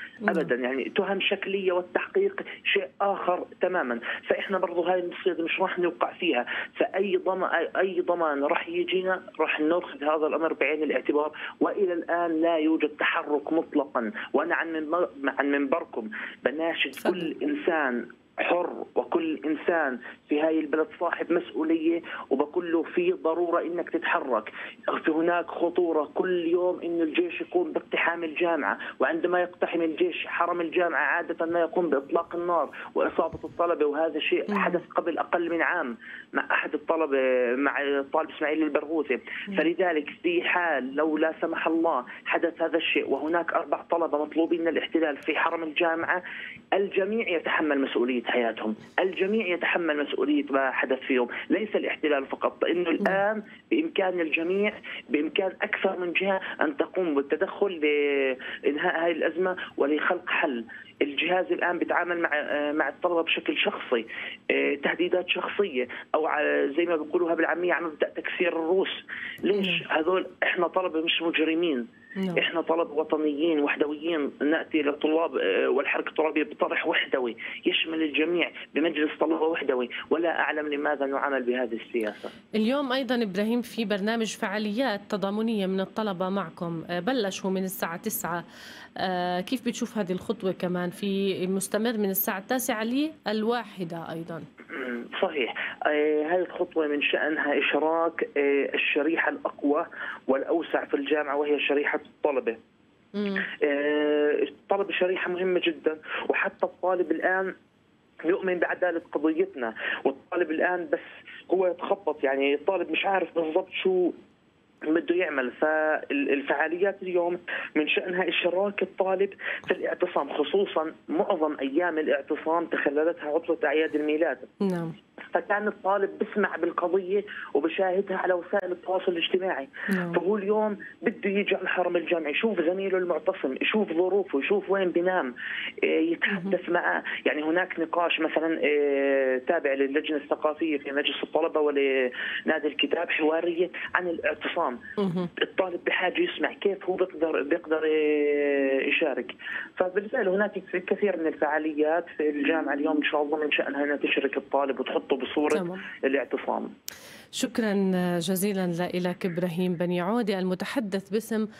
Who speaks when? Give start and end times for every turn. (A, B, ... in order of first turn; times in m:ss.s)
0:00.3-0:46.2 A
0:46.7-1:11.8 A
1:12.4-1:22.3 A
1:22.7-1:28.4 B
1:23.0-1:24.0 C
1:29.0-1:34.4 B
1:30.1-1:30.4 C
1:34.7-1:42.6 A
1:43.4-1:47.5 A
1:48.3-1:54.1 A
1:54.9-2:04.5 A
2:05.3-2:15.3 A
2:15.8-2:24.8 A
2:25.4-2:36.7 A
2:35.5-2:35.8 C
2:37.4-2:37.8 C
2:38.3-2:41.4 C
2:39.1-2:39.5 B